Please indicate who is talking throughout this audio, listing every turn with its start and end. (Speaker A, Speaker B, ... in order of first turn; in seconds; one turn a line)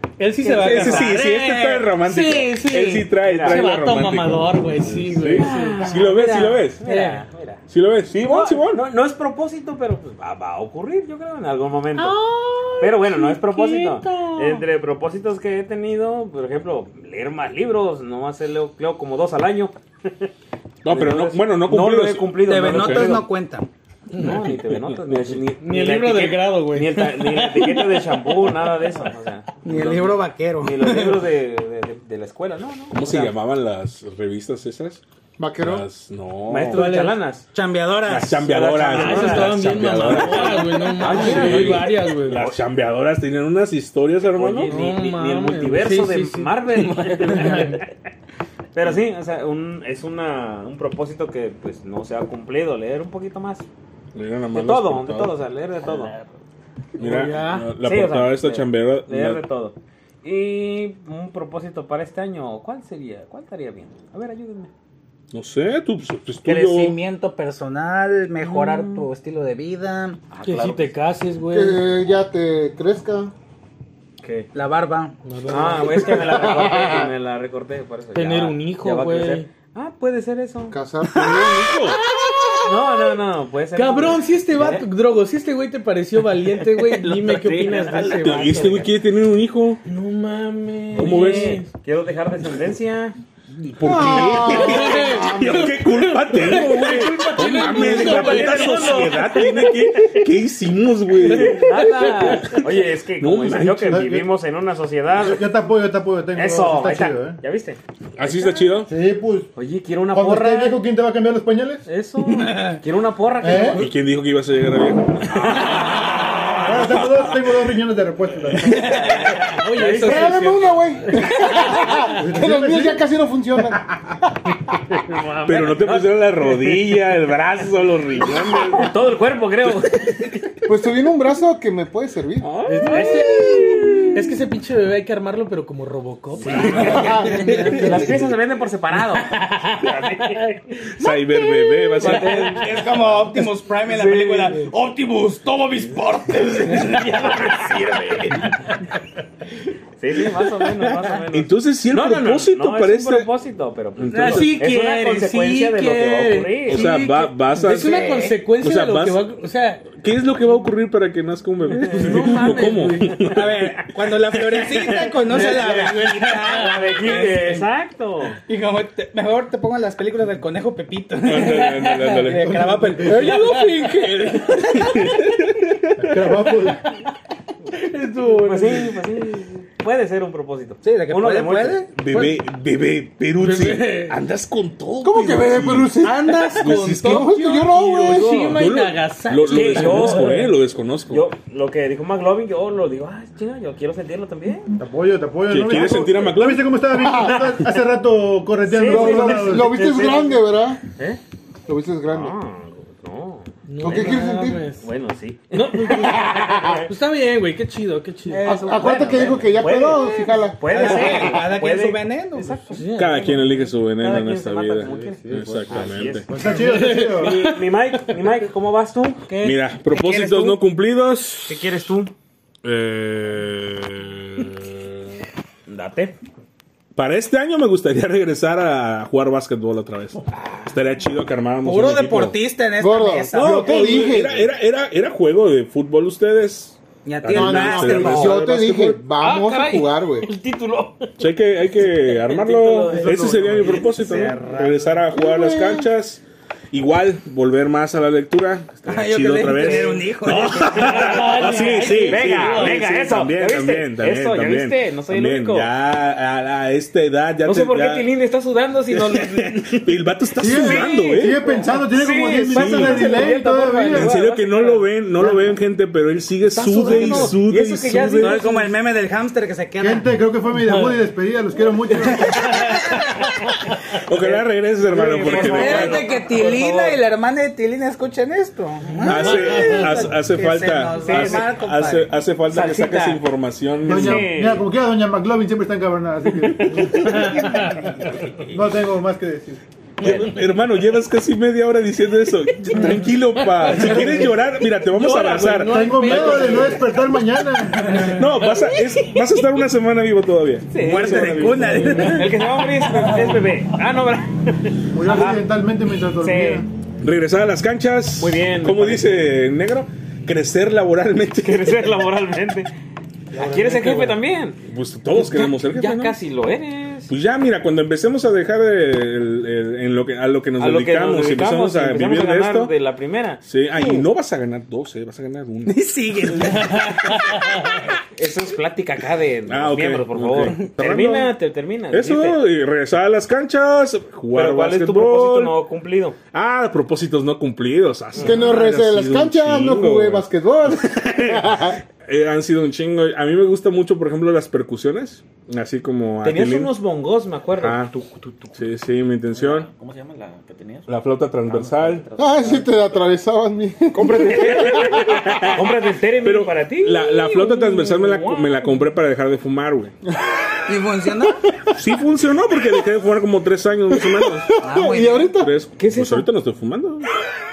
Speaker A: 0.2-5.9
Speaker B: 0.4-1.2
Speaker C: 0.5-6.8
Speaker B: 3.2-3.6
Speaker B: 5.4-7.6
Speaker A: 6.8-7.2
Speaker C: 7.7-8.8
Speaker B: 8.2-12.2
Speaker A: 12.0-14.7
Speaker B: 12.8-20.3
Speaker C: 20.8-23.2
Speaker B: 20.9-23.3
Speaker D: 22.4-23.7
Speaker B: 24.2-33.3
Speaker C: 24.3-25.4
Speaker A: 25.6-28.3
Speaker D: 29.6-31.2
Speaker C: 32.9-35.0
Speaker E: 35.4-35.9
Speaker C: 35.6-37.0
Speaker B: 36.5-37.5
Speaker A: 36.7-37.2
Speaker D: 37.5-38.6
Speaker C: 38.1-44.8
Speaker B: 38.4-42.5
Speaker A: 38.9-42.4
Speaker B: 44.3-47.9
Speaker A: 44.7-47.8
Speaker B: 48.7-53.7
Speaker C: 54.1-55.4
Speaker B: 54.5-56.1
Speaker C: 57.0-59.4
Speaker A: 57.0-57.7
Speaker B: 57.8-64.7
Speaker C: 65.3-67.0
Speaker D: 66.4-70.2
Speaker A: 68.4-69.0
Speaker B: 70.3-70.9
Speaker A: 70.4-71.8
Speaker E: 71.5-73.3
Speaker B: 74.2-74.5
Speaker D: 74.5-75.2
Speaker A: 75.2-76.3
Speaker B: 75.5-80.8
Speaker E: 75.9-77.1
Speaker A: 78.2-79.5
Speaker E: 80.7-81.7
Speaker C: 81.1-82.0
Speaker B: 82.6-84.8
Speaker A: 83.8-88.8
Speaker B: 86.8-88.9
Speaker C: 88.1-89.8
Speaker A: 89.9-91.7
Speaker B: 90.9-93.2
Speaker C: 90.9-91.7
Speaker C: 93.6-102.6
Speaker E: 93.8-95.8
Speaker A: 94.2-99.5
Speaker B: 97.4-99.3
Speaker B: 101.2-105.5
Speaker A: 101.3-102.6
Speaker C: 103.2-104.1
Speaker F: 103.9-104.3
Speaker F: 105.2-107.4
Speaker B: 106.3-108.7
Speaker C: 108.2-108.9
Speaker F: 108.8-109.5
Speaker B: 109.6-110.8
Speaker F: 110.1-111.9
Speaker B: 111.9-113.9
Speaker D: 112.5-112.8
Speaker F: 113.4-113.9
Speaker C: 113.7-116.0
Speaker B: 115.3-117.2
Speaker A: 115.7-116.1
Speaker F: 116.6-119.0
Speaker C: 116.7-116.9
Speaker B: 118.7-120.9
Speaker A: 118.8-120.7
Speaker E: 120.0-123.9
Speaker A: 121.4-122.0
Speaker F: 122.1-123.0
Speaker B: 125.1-126.8
Speaker C: 125.5-129.0
Speaker B: 128.3-130.5
Speaker E: 130.7-132.5
Speaker B: 132.4-134.1
Speaker A: 132.7-138.2
Speaker C: 132.7-133.6
Speaker B: 136.4-140.5
Speaker D: 136.8-137.6
Speaker E: 136.8-138.2
Speaker A: 138.9-140.5
Speaker C: 140.9-142.5
Speaker A: 141.3-142.6
Speaker B: 142.0-143.0
Speaker D: 142.2-148.2
Speaker B: 146.9-147.8
Speaker B: 150.0-156.8
Speaker C: 151.3-153.3
Speaker C: 154.0-154.6
Speaker A: 154.1-159.9
Speaker C: 156.7-159.3
Speaker C: 159.9-163.8
Speaker B: 161.7-163.5
Speaker A: 161.8-163.1
Speaker D: 163.3-167.7
Speaker B: 164.3-168.4
Speaker A: 165.3-166.7
Speaker D: 168.5-175.1
Speaker C: 171.2-172.6
Speaker F: 172.4-173.3
Speaker A: 173.1-175.0
Speaker C: 173.2-173.6
Speaker C: 174.7-176.0
Speaker F: 176.0-176.8
Speaker A: 177.7-179.0
Speaker B: 178.3-181.9
Speaker D: 180.8-182.4
Speaker C: 181.9-186.0
Speaker A: 183.4-184.2
Speaker E: 185.0-188.5
Speaker A: 186.0-190.4
Speaker C: 186.5-187.4
Speaker B: 188.1-188.6
Speaker C: 188.2-191.3
Speaker B: 189.4-190.5
Speaker B: 191.1-194.7
Speaker F: 194.8-199.8
Speaker C: 195.5-196.7
Speaker E: 197.0-197.3
Speaker B: 197.2-197.8
Speaker B: 198.6-200.4
Speaker E: 198.8-200.8
Speaker E: 201.7-202.4
Speaker B: 202.1-204.3
Speaker A: 203.7-204.8
Speaker E: 203.8-204.7
Speaker B: 204.8-206.9
Speaker A: 205.5-206.3
Speaker E: 206.2-206.8
Speaker A: 206.8-208.4
Speaker B: 208.3-219.6
Speaker E: 208.4-211.0
Speaker D: 208.8-209.3
Speaker D: 210.6-212.7
Speaker A: 212.8-213.3
Speaker C: 212.9-216.3
Speaker F: 214.8-217.5
Speaker A: 216.5-217.6
Speaker C: 219.4-221.6
Speaker D: 219.8-220.6
Speaker B: 221.5-222.1
Speaker C: 222.6-225.1
Speaker B: 225.7-226.2
Speaker C: 226.9-232.4
Speaker D: 231.6-234.2
Speaker E: 232.8-234.5
Speaker C: 233.3-239.0
Speaker D: 237.1-238.5
Speaker E: 237.3-240.3
Speaker B: 237.5-238.3
Speaker B: 239.2-241.2
Speaker C: 241.2-258.1
Speaker B: 241.8-244.9
Speaker D: 242.9-244.4
Speaker E: 245.1-245.9
Speaker D: 248.8-252.0
Speaker B: 249.5-255.7
Speaker A: 250.8-252.8
Speaker B: 257.4-259.9
Speaker C: 258.9-261.5
Speaker F: 260.4-264.2
Speaker B: 260.4-264.9
Speaker C: 262.2-268.4
Speaker D: 266.5-267.4
Speaker B: 266.6-268.7
Speaker D: 268.1-270.1
Speaker F: 269.8-272.5
Speaker A: 270.6-271.0
Speaker D: 271.9-273.2
Speaker A: 272.4-273.7
Speaker C: 274.1-276.1
Speaker B: 274.1-277.0
Speaker D: 275.2-282.2
Speaker C: 279.0-284.3
Speaker A: 279.2-279.9
Speaker B: 280.9-281.5
Speaker B: 282.5-283.2
Speaker F: 283.8-287.3
Speaker B: 283.9-284.7
Speaker A: 286.9-288.1
Speaker D: 287.5-288.1
Speaker F: 288.5-289.6
Speaker B: 290.0-290.3
Speaker C: 290.0-296.7
Speaker A: 290.0-290.4
Speaker A: 293.5-294.3
Speaker A: 294.9-296.9
Speaker F: 295.7-298.2
Speaker A: 297.7-298.4
Speaker C: 298.1-302.0
Speaker B: 300.7-305.5
Speaker D: 300.8-302.5
Speaker F: 304.9-306.7
Speaker B: 306.2-306.7
Speaker C: 307.0-311.9
Speaker B: 308.2-309.3
Speaker B: 311.4-312.7
Speaker B: 313.3-314.6
Speaker C: 314.6-316.2
Speaker B: 315.2-317.1
Speaker C: 317.1-322.7
Speaker B: 320.6-324.0
Speaker C: 323.4-325.8
Speaker D: 323.8-324.0
Speaker D: 325.7-327.7
Speaker A: 326.4-327.8
Speaker B: 328.1-332.4
Speaker C: 329.5-331.3
Speaker C: 331.9-335.6
Speaker B: 334.3-336.2
Speaker C: 336.3-340.2
Speaker B: 338.1-338.4
Speaker E: 338.2-341.8
Speaker C: 340.9-341.4
Speaker C: 342.1-346.7
Speaker B: 346.2-348.6
Speaker C: 347.6-347.9
Speaker C: 348.5-349.7
Speaker G: 349.3-352.8
Speaker C: 350.9-352.1
Speaker E: 352.2-355.1
Speaker B: 353.9-358.7
Speaker C: 354.7-355.7
Speaker C: 356.2-359.9
Speaker D: 360.7-361.4
Speaker C: 361.7-364.5
Speaker E: 363.9-365.5
Speaker D: 364.6-365.3
Speaker C: 365.3-367.1
Speaker B: 365.8-366.3